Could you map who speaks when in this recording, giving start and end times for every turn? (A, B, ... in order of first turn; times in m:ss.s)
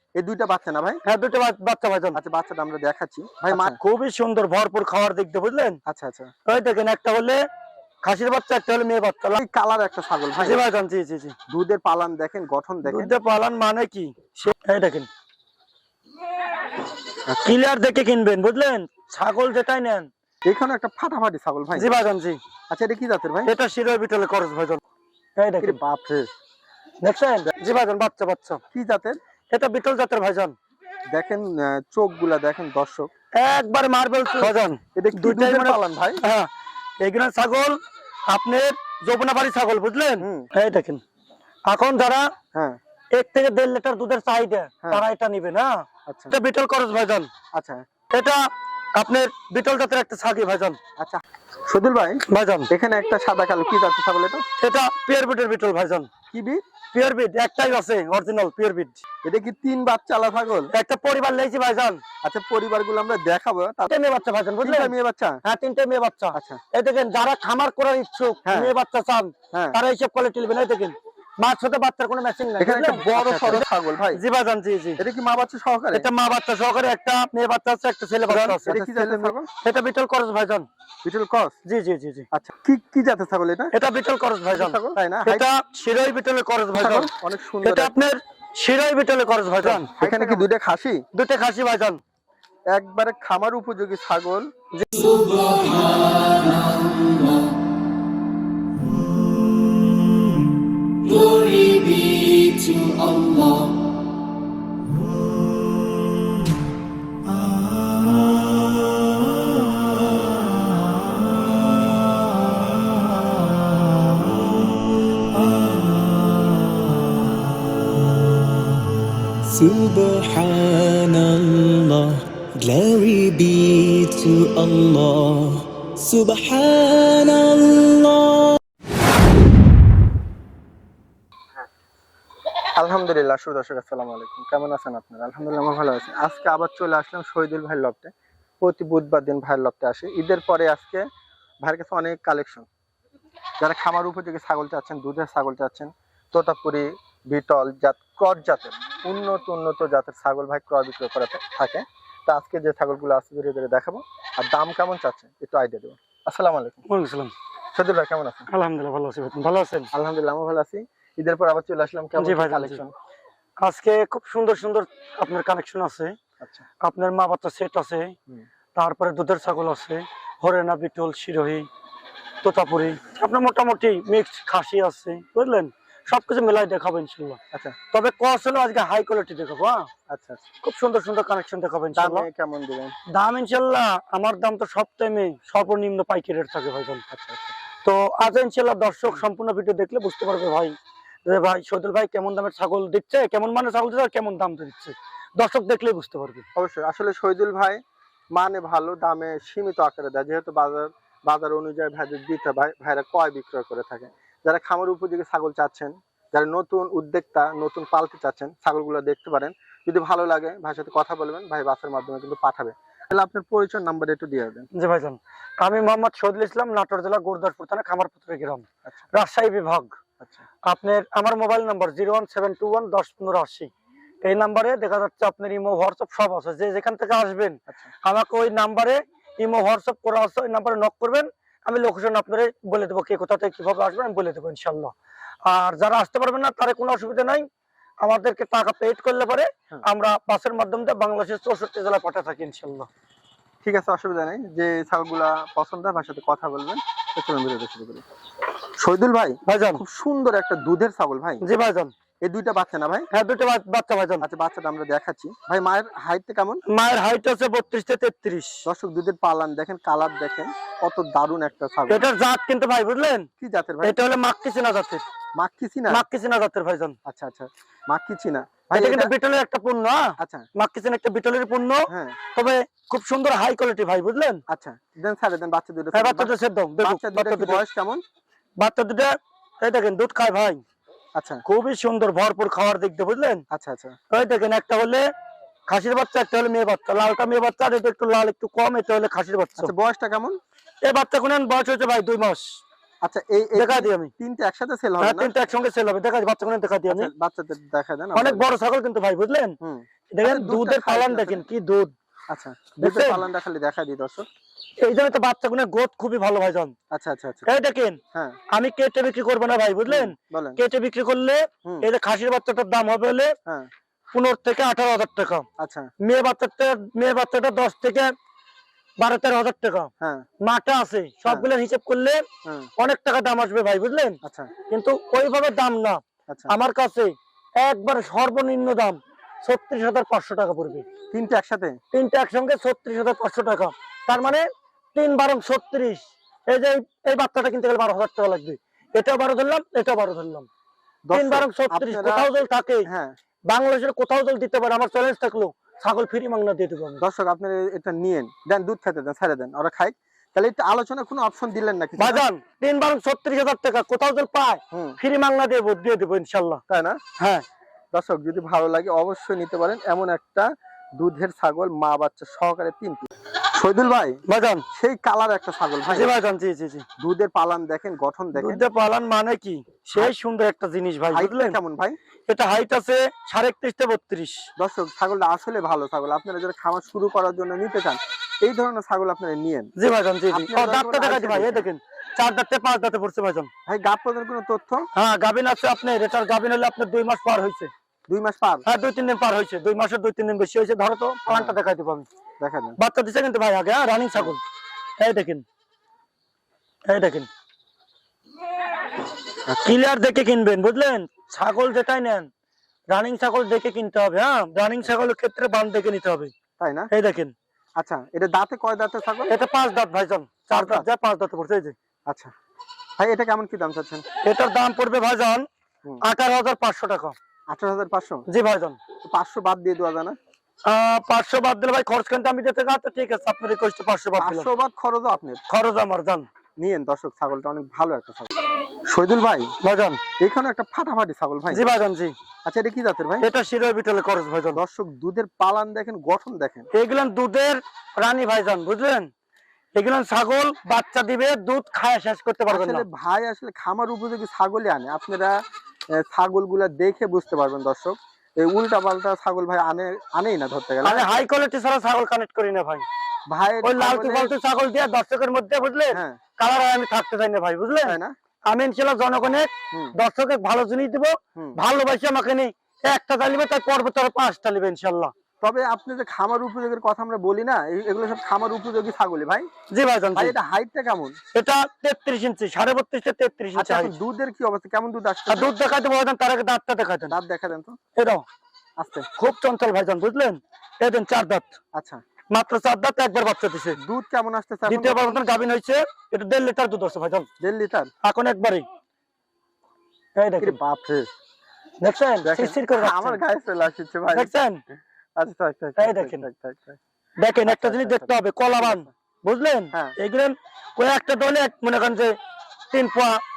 0:00.2-0:01.0 A
0:01.0-0:02.2 B
0:02.1-0:03.8 A
0:03.5-0:05.8 B
0:05.8-0:06.3 A
0:06.4-0:07.4 B
0:08.0-0:09.4 B
0:09.4-0:10.6 A
0:10.4-0:11.4 B
0:11.5-0:13.1 A
0:12.8-0:15.1 B
0:17.3-0:17.6 A
0:17.4-0:20.1 B
0:20.4-0:21.9 A
0:21.7-0:22.4 B
0:22.7-0:23.5 A
0:23.4-0:24.8 B
0:25.4-0:25.8 B
0:25.6-0:26.3 A
0:27.0-0:28.6 B
0:28.7-0:29.2 A
0:29.5-0:30.5 B
0:31.1-0:33.1 A
0:33.3-0:41.0 B
0:34.4-0:36.2 A
0:40.2-0:40.5 A
0:41.6-0:42.3 B
0:43.1-0:47.3 B
0:46.1-0:46.4 A
0:47.5-0:47.8 A
0:48.1-0:48.4 B
0:48.9-0:50.8 B
0:51.0-0:54.4 A
0:52.3-0:52.7 B
0:54.6-0:56.1 B
0:56.3-0:56.6 A
0:56.9-0:59.0 B
0:59.2-1:00.7 A
1:00.7-1:02.0 B
1:02.2-1:03.9 A
1:03.8-1:04.9 B
1:04.6-1:05.4 A
1:05.4-1:15.0 B
1:06.3-1:06.6 A
1:08.4-1:08.7 A
1:09.5-1:09.8 A
1:12.6-1:14.2 A
1:15.0-1:16.1 A
1:15.9-1:20.6 B
1:18.3-1:19.5 A
1:21.0-1:21.6 A
1:21.6-1:22.3 B
1:22.3-1:23.7 A
1:23.7-1:27.1 B
1:24.5-1:25.4 A
1:26.8-1:27.9 A
1:27.6-1:30.4 B
1:29.6-1:31.0 A
1:31.1-1:32.0 B
1:32.7-1:34.5 A
1:34.7-1:35.1 B
1:35.0-1:37.4 C
1:41.0-1:43.7 C
1:59.4-2:08.6 C
2:12.8-2:21.0 A
2:21.6-2:22.7 A
2:23.6-2:36.8 A
2:36.9-2:37.3 B
2:37.7-2:38.5 A
2:38.5-2:39.9 B
2:39.9-2:42.9 A
2:42.2-2:42.8 B
2:43.6-2:46.1 B
2:46.8-2:48.2 B
2:48.7-2:51.7 B
2:52.4-2:57.4 B
2:57.9-2:59.9 B
3:00.1-3:00.4 A
3:00.6-3:02.2 B
3:01.9-3:03.0 A
3:03.1-3:07.0 B
3:07.1-3:07.5 A
3:07.8-3:10.7 B
3:11.2-3:16.4 B
3:16.6-3:17.8 A
3:18.3-3:34.7 A
3:34.7-3:39.9 B
3:40.2-3:40.4 A
3:40.6-3:43.7 B
3:44.2-3:57.4 B
3:58.0-4:02.9 B
4:03.6-4:08.0 A
4:08.8-4:11.4 A
4:09.4-4:09.8 B
4:11.4-4:11.9 B
4:12.2-4:13.1 A
4:13.1-4:14.2 B
4:14.2-4:16.6 A
4:16.7-4:18.6 B
4:18.6-4:22.0 A
4:21.9-4:23.3 B
4:23.4-4:24.0 A
4:23.8-4:25.0 B
4:25.4-4:26.0 A
4:25.9-4:27.0 B
4:27.0-4:29.1 A
4:28.7-4:34.4 B
4:30.2-4:30.5 A
4:31.9-4:32.2 A
4:34.5-4:38.0 A
4:35.9-4:37.6 B
4:38.6-4:40.6 B
4:41.2-4:41.4 A
4:41.4-4:43.4 B
4:43.5-4:44.0 A
4:44.1-4:45.0 B
4:45.7-4:49.7 B
4:49.6-4:50.4 A
4:50.8-4:52.6 B
4:53.0-4:55.3 A
4:53.6-4:54.1 B
4:55.0-4:57.1 B
4:56.9-4:58.4 A
4:58.1-4:59.6 B
4:59.6-5:01.4 A
5:00.1-5:01.9 B
5:02.3-5:04.2 A
5:02.8-5:03.2 B
5:04.8-5:06.7 B
5:06.9-5:07.5 A
5:07.4-5:08.0 B
5:08.5-5:13.3 B
5:09.9-5:10.6 A
5:14.1-5:15.4 B
5:15.6-5:15.9 A
5:16.0-5:18.1 B
5:19.0-5:22.2 B
5:20.0-5:20.2 A
5:22.4-5:22.7 A
5:22.8-5:30.9 B
5:24.2-5:24.5 A
5:26.3-5:26.5 A
5:31.1-5:31.8 A
5:31.9-5:40.5 B
5:41.0-5:42.3 A
5:41.1-5:42.9 B
5:42.8-5:43.1 A
5:43.5-5:47.0 B
5:47.0-5:52.2 A
5:52.0-5:56.6 B
5:54.7-5:55.0 A
5:56.7-5:57.0 A
5:57.2-5:57.4 B
5:57.9-6:04.2 A
6:04.3-6:04.6 B
6:04.7-6:06.1 A
6:05.9-6:06.8 B
6:07.0-6:08.6 A
6:08.3-6:11.6 B
6:11.1-6:12.0 A
6:12.3-6:14.4 B
6:14.6-6:19.7 A
6:19.8-6:23.5 B
6:20.3-6:21.7 A
6:23.7-6:24.9 A
6:24.9-6:27.7 B
6:28.1-6:28.6 A
6:28.6-6:32.1 B
6:31.3-6:31.5 A
6:32.4-6:32.8 A
6:32.8-6:34.4 B
6:35.0-6:35.4 B
6:36.8-6:37.3 B
6:39.5-6:39.8 A
6:39.6-6:42.3 B
6:42.9-6:46.3 B
6:46.6-6:46.9 A
6:46.9-6:47.3 B
6:47.8-6:49.3 A
6:49.3-6:51.8 B
6:50.5-6:50.9 A
6:53.0-6:54.0 A
6:54.2-6:55.4 B
6:56.0-6:57.2 B
6:57.5-6:58.2 A
6:58.3-6:58.8 B
6:59.1-7:00.2 A
7:00.6-7:04.5 B
7:04.2-7:05.4 A
7:05.5-7:06.2 B
7:06.6-7:08.3 A
7:08.8-7:09.5 A
7:09.6-7:10.0 B
7:10.2-7:11.7 A
7:11.5-7:12.1 B
7:12.4-7:13.2 A
7:13.2-7:14.6 B
7:14.5-7:16.7 A
7:16.7-7:19.1 B
7:19.7-7:22.8 B
7:22.5-7:25.4 A
7:25.9-7:31.0 A
7:30.8-7:32.8 B
7:33.3-7:34.3 A
7:33.6-7:45.1 B
7:35.9-7:36.2 A
7:37.8-7:38.1 A
7:45.4-7:49.5 A
7:49.7-7:50.3 B
7:50.1-7:51.2 A
7:51.3-7:53.9 B
7:53.5-7:55.5 A
7:55.3-7:57.1 B
7:57.1-7:57.8 A
7:58.0-7:58.2 B
7:58.8-7:59.1 A
7:59.2-8:01.6 B
8:01.7-8:02.0 A
8:02.3-8:03.8 B
8:03.8-8:05.2 A
8:04.7-8:07.3 B
8:07.4-8:07.9 A
8:08.0-8:08.6 B
8:10.2-8:10.6 B
8:10.4-8:11.1 A
8:11.8-8:13.2 B
8:12.2-8:14.3 A
8:14.1-8:14.6 B
8:15.2-8:16.8 A
8:15.8-8:16.3 B
8:17.2-8:22.1 B
8:17.4-8:18.9 A
8:22.7-8:23.2 B